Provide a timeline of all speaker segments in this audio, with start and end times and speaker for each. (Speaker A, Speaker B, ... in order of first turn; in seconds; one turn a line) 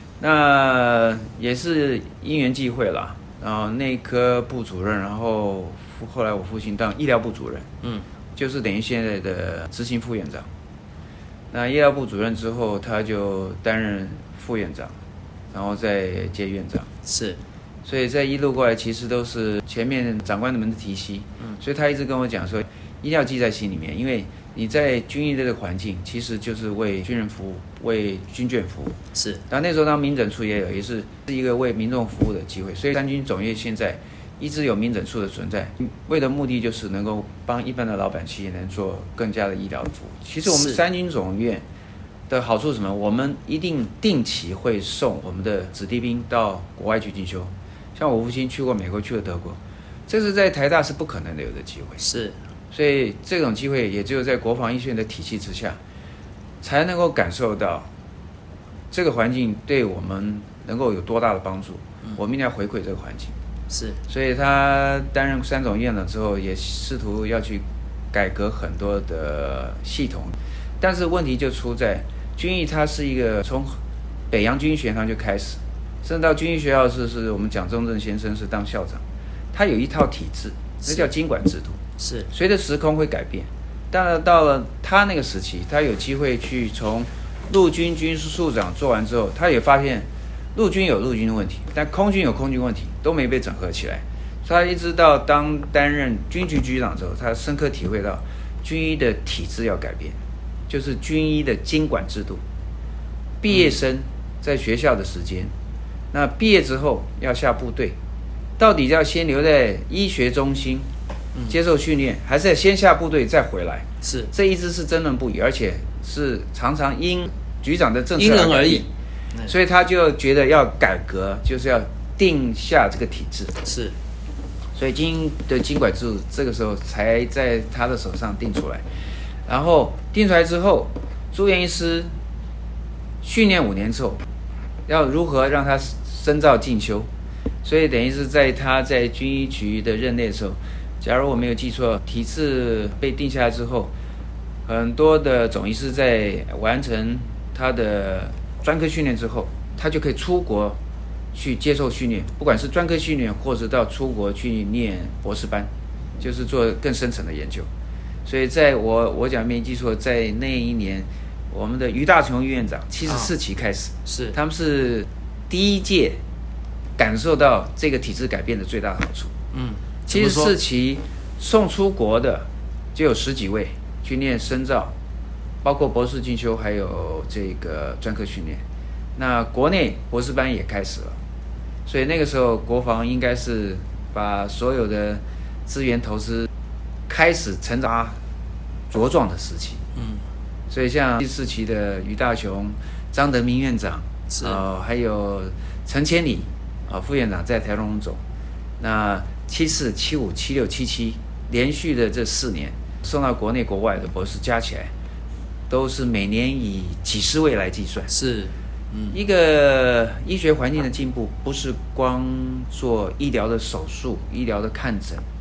Speaker A: 0.2-7.7
Speaker A: 8.3-10.5
Speaker A: 11.5-14.9
Speaker A: 15.5-16.9
Speaker B: 17.0-17.4
Speaker A: 17.8-28.9
Speaker B: 29.1-29.4
Speaker A: 29.5-41.6
Speaker B: 40.4-40.8
Speaker A: 42.3-52.0
Speaker B: 52.0-52.4
Speaker A: 52.7-55.8
Speaker A: 56.6-57.9
Speaker A: 58.9-63.3
Speaker B: 63.7-64.0
Speaker A: 64.1-73.8
Speaker A: 74.3-79.0
Speaker A: 79.5-100.2
Speaker B: 82.0-82.3
Speaker A: 100.7-102.4
Speaker A: 103.4-105.5
Speaker B: 103.5-103.8
Speaker A: 106.1-108.0
Speaker A: 108.6-110.9
Speaker A: 111.5-118.9
Speaker B: 114.0-114.3
Speaker B: 118.2-119.5
Speaker A: 119.5-123.6
Speaker B: 123.6-123.9
Speaker A: 124.8-128.8
Speaker A: 129.5-132.1
Speaker A: 133.2-134.2
Speaker A: 134.9-137.1
Speaker A: 137.6-143.9
Speaker A: 144.7-150.8
Speaker A: 151.3-157.7
Speaker A: 158.2-166.2
Speaker B: 164.1-164.3
Speaker A: 167.0-169.3
Speaker B: 169.5-170.6
Speaker A: 170.1-174.9
Speaker A: 175.6-178.6
Speaker A: 179.2-181.2
Speaker A: 181.8-186.5
Speaker A: 187.1-188.2
Speaker A: 188.9-189.8
Speaker B: 189.9-190.2
Speaker A: 190.7-198.2
Speaker B: 194.3-194.6
Speaker A: 198.8-204.9
Speaker A: 205.7-208.1
Speaker B: 208.1-209.1
Speaker A: 209.1-215.2